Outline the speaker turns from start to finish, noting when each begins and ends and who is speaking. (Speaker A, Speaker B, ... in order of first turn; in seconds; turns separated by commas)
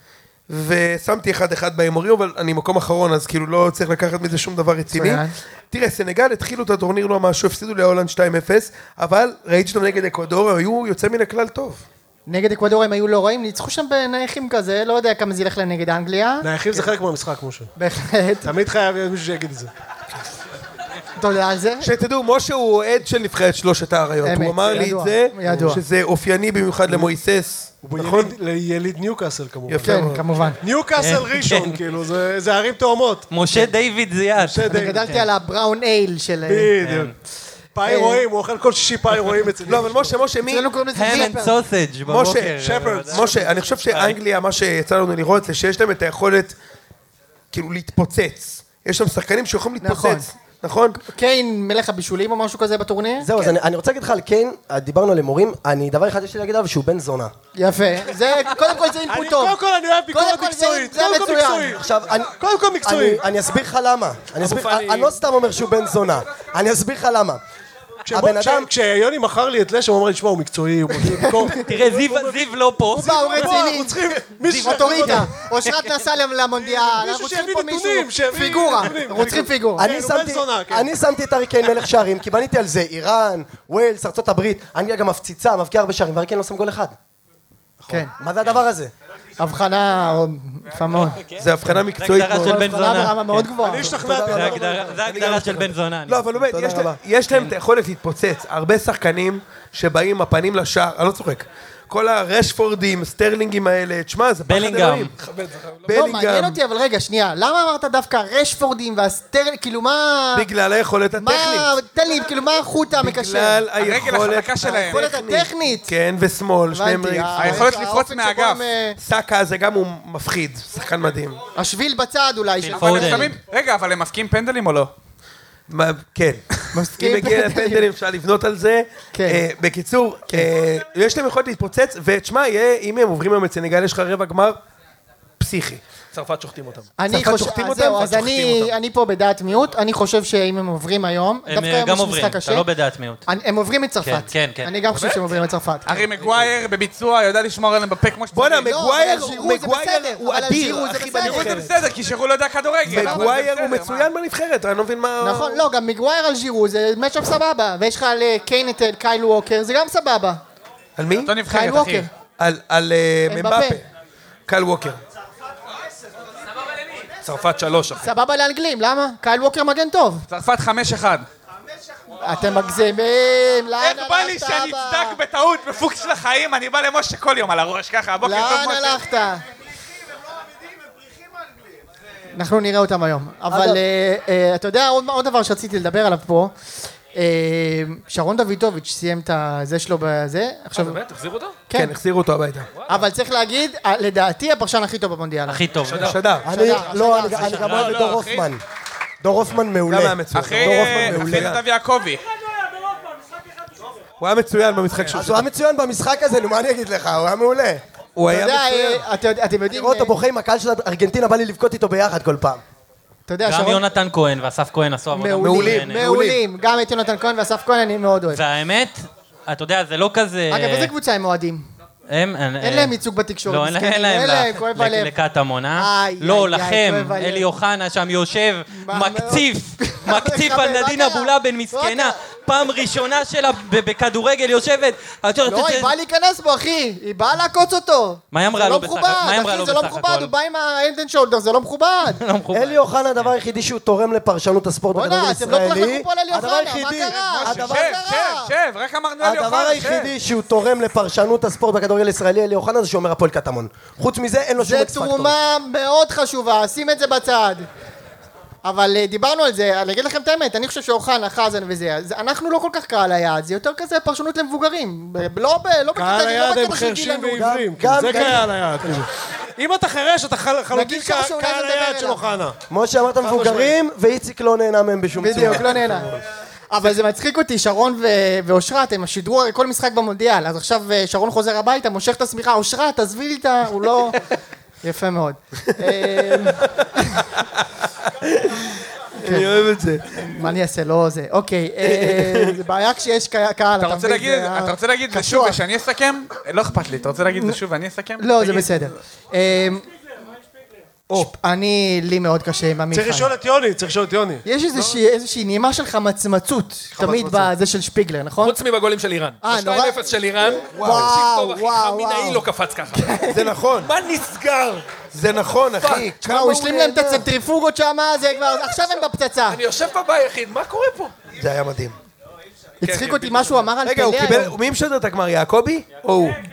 Speaker A: 0.5-11.8, Speaker B: 4.9-5.3, Speaker B: 12.3-16.9, Speaker C: 16.4-17.7, Speaker B: 17.8-18.5, Speaker C: 18.4-19.7, Speaker B: 21.2-21.9, Speaker A: 21.8-28.4, Speaker B: 24.2-25.8, Speaker C: 27.8-33.3, Speaker A: 29.7-30.3, Speaker B: 29.8-30.6, Speaker D: 31.0-31.8, Speaker D: 33.3-35.2, Speaker C: 34.4-35.1, Speaker B: 34.7-36.7, Speaker C: 36.5-37.1, Speaker D: 36.8-37.1, Speaker C: 37.8-40.2, Speaker B: 37.9-38.2, Speaker A: 39.7-40.7, Speaker B: 40.4-41.6, Speaker D: 40.9-43.3, Speaker A: 42.1-46.6, Speaker C: 42.6-43.6, Speaker D: 43.9-44.2, Speaker A: 47.5-51.0, Speaker B: 49.8-50.3, Speaker B: 51.0-53.4, Speaker E: 53.2-57.3, Speaker B: 57.5-59.6, Speaker C: 59.1-61.8, Speaker B: 60.1-61.8, Speaker E: 61.8-67.4, Speaker C: 62.3-63.2, Speaker F: 64.4-65.2, Speaker C: 68.1-75.3, Speaker E: 68.1-68.7, Speaker B: 71.1-71.6, Speaker D: 71.5-73.6, Speaker B: 72.9-79.9, Speaker D: 74.5-75.9, Speaker C: 76.5-80.9, Speaker E: 79.8-87.0, Speaker E: 87.8-88.9, Speaker B: 87.9-88.1, Speaker B: 89.4-91.2, Speaker A: 91.4-92.8, Speaker D: 92.0-93.5, Speaker B: 92.3-94.0, Speaker C: 93.6-95.2, Speaker E: 93.9-94.9, Speaker D: 94.1-97.5, Speaker A: 95.0-105.1, Speaker D: 104.5-105.1, Speaker F: 105.2-105.9, Speaker A: 105.9-106.6, Speaker B: 105.9-110.5, Speaker A: 110.3-111.7, Speaker B: 111.2-113.6, Speaker A: 113.0-117.7, Speaker G: 113.8-115.0, Speaker B: 114.6-115.9, Speaker B: 116.7-119.0, Speaker G: 117.4-118.7, Speaker A: 119.0-121.4, Speaker B: 121.6-123.3, Speaker D: 122.6-123.3, Speaker G: 122.7-124.9, Speaker A: 125.7-134.6, Speaker B: 126.7-127.9, Speaker B: 129.1-129.4, Speaker A: 135.4-135.8, Speaker F: 136.1-136.9, Speaker B: 137.0-142.7, Speaker A: 137.1-138.8, Speaker D: 141.5-143.2, Speaker B: 143.3-146.1, Speaker D: 144.0-144.7, Speaker G: 145.9-148.7, Speaker A: 148.3-151.8, Speaker B: 148.6-151.7, Speaker G: 151.2-154.1, Speaker A: 152.9-155.7, Speaker B: 152.9-153.3, Speaker B: 155.2-160.4, Speaker A: 161.0-161.4, Speaker G: 161.2-162.1, Speaker B: 161.5-162.1, Speaker A: 162.4-163.9, Speaker B: 163.3-163.8, Speaker A: 164.5-165.0, Speaker F: 167.2-168.1, Speaker B: 168.0-170.3, Speaker G: 170.3-171.3, Speaker B: 172.2-175.2, Speaker G: 173.8-179.0, Speaker B: 178.2-179.4, Speaker B: 182.3-186.5, Speaker E: 183.5-183.8, Speaker B: 187.1-191.0, Speaker F: 190.7-191.6, Speaker B: 191.7-191.9, Speaker A: 191.7-192.7, Speaker F: 192.7-193.1, Speaker B: 192.9-195.6, Speaker D: 195.5-196.2, Speaker F: 195.8-196.4, Speaker A: 196.0-196.5, Speaker B: 196.4-197.9, Speaker E: 196.4-198.6, Speaker D: 197.2-198.1, Speaker G: 197.5-198.5, Speaker E: 199.2-201.5, Speaker A: 199.9-201.6, Speaker G: 200.3-202.2, Speaker A: 204.2-205.5, Speaker E: 205.1-207.8, Speaker A: 208.2-209.1, Speaker B: 208.3-210.1, Speaker E: 209.7-212.6, Speaker B: 213.3-213.8, Speaker D: 213.4-216.0, Speaker B: 215.1-218.4, Speaker A: 215.4-216.4, Speaker D: 218.3-220.9, Speaker B: 220.5-221.7, Speaker D: 222.1-235.9, Speaker B: 222.6-225.1, Speaker B: 225.8-227.5, Speaker B: 228.7-232.2, Speaker B: 235.4-242.2, Speaker D: 238.3-240.3, Speaker D: 242.1-243.4, Speaker E: 242.5-248.0, Speaker B: 244.9-248.5, Speaker G: 247.1-250.1, Speaker E: 249.2-255.3, Speaker B: 254.6-257.7, Speaker B: 258.6-267.5, Speaker C: 265.9-272.6, Speaker E: 267.4-268.5, Speaker B: 270.7-272.3, Speaker E: 272.7-275.8, Speaker C: 273.2-273.8, Speaker B: 275.2-276.1, Speaker A: 275.4-276.2, Speaker B: 276.7-284.2, Speaker B: 284.8-287.3, Speaker A: 285.8-286.6, Speaker A: 287.4-290.4, Speaker B: 289.2-289.6, Speaker B: 290.1-295.6, Speaker A: 291.8-292.6, Speaker G: 293.8-298.9, Speaker B: 298.2-299.8, Speaker B: 301.1-303.3, Speaker C: 302.9-304.4, Speaker B: 304.4-308.6, Speaker C: 307.0-307.5, Speaker F: 308.4-313.2, Speaker B: 309.4-310.0, Speaker B: 310.6-313.4, Speaker A: 310.7-311.1, Speaker A: 313.3-313.9, Speaker F: 313.8-314.8, Speaker A: 315.1-317.3, Speaker F: 315.8-316.1, Speaker B: 316.2-319.6, Speaker F: 319.5-321.1, Speaker A: 321.4-322.0, Speaker B: 322.8-324.6, Speaker F: 322.8-323.7, Speaker A: 323.8-326.4